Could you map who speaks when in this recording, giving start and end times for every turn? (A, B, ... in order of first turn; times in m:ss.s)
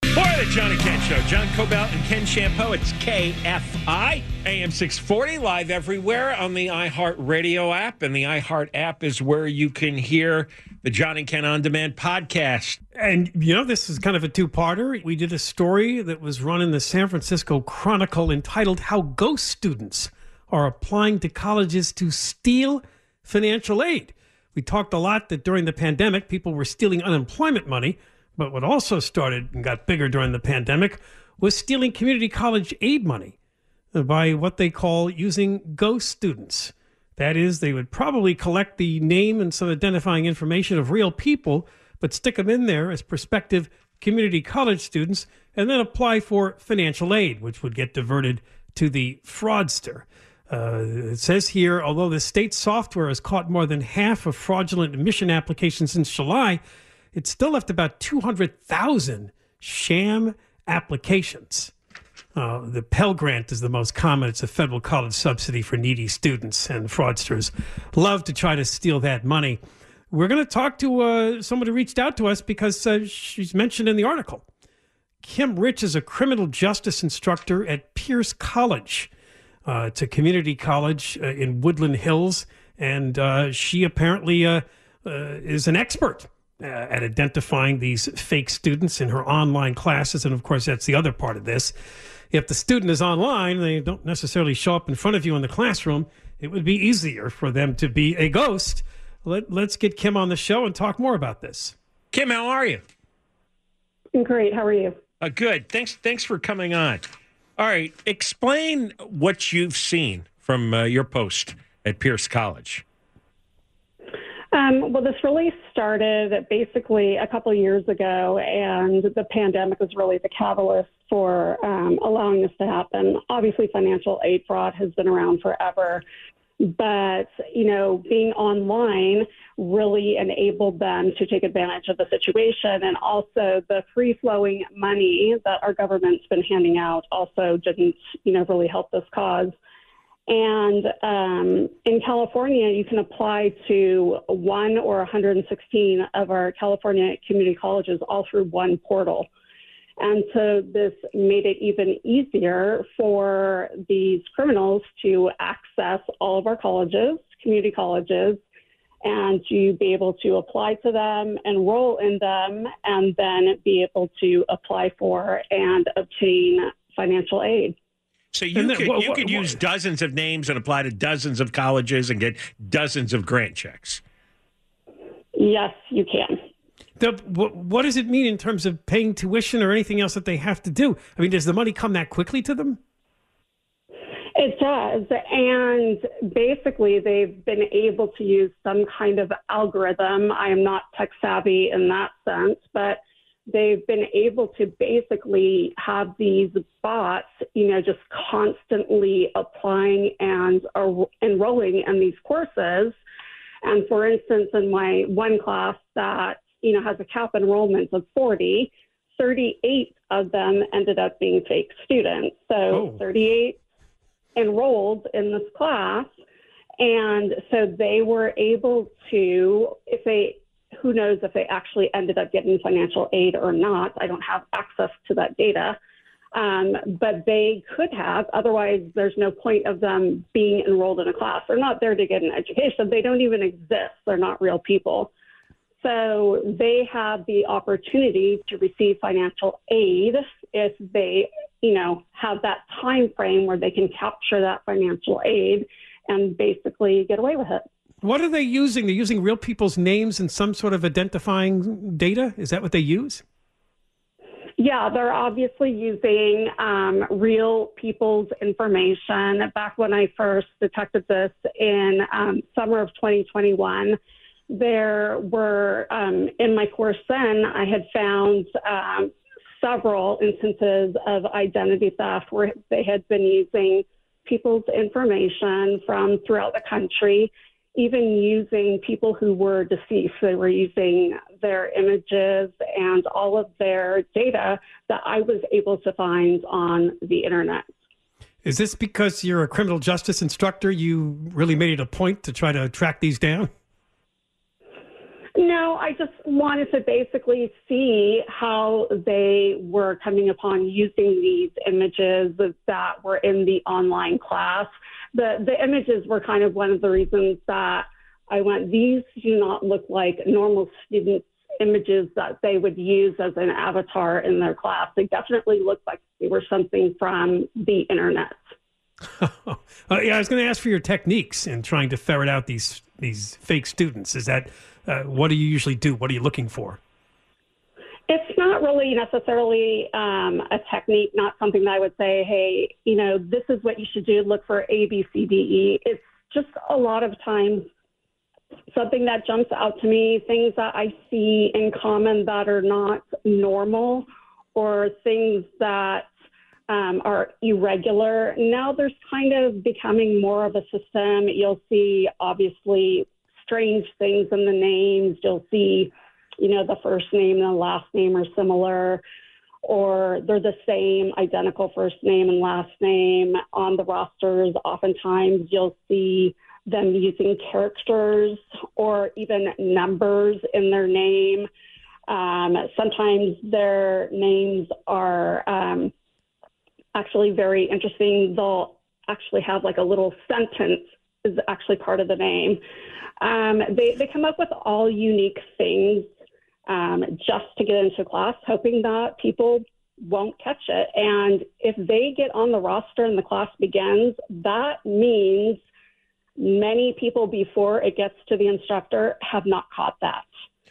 0:00.1-0:12.8 A
0:12.9-0:33.3 B
0:33.9-0:56.6 B
0:57.1-1:01.7 B
1:02.3-1:09.6 B
1:10.1-1:14.4 B
1:15.2-1:19.1 B
1:19.6-1:31.7 B
1:32.3-1:41.7 B
1:42.1-1:42.8 A
1:44.1-1:45.0 C
1:45.2-1:47.0 A
1:47.6-1:52.8 A
1:54.5-2:06.0 C
2:06.6-2:19.5 C
2:20.3-2:29.3 C
2:30.0-2:38.4 C
2:39.0-2:47.8 C
2:48.3-2:54.0 A
2:48.5-2:49.6 B
2:55.4-2:56.4 C
2:57.0-3:02.8 B
3:04.4-3:23.0 C
3:23.6-3:33.6 C
3:32.7-3:33.0 B
3:34.3-3:36.1 C
3:36.8-3:45.8 C
3:46.3-3:55.1 C
3:55.8-4:07.6 C
4:08.0-4:13.2 B
4:14.6-4:24.0 C
4:24.5-4:47.7 C
4:48.4-4:53.5 B
4:55.4-5:18.4 C
5:19.2-5:26.8 B
5:28.1-5:37.7 C
5:38.7-5:46.1 C
5:46.7-5:59.0 C
5:59.6-6:11.5 C
6:12.1-6:15.9 C
6:16.9-6:22.6 C
6:23.2-6:26.1 C
6:26.7-6:35.6 C
6:36.4-6:40.3 C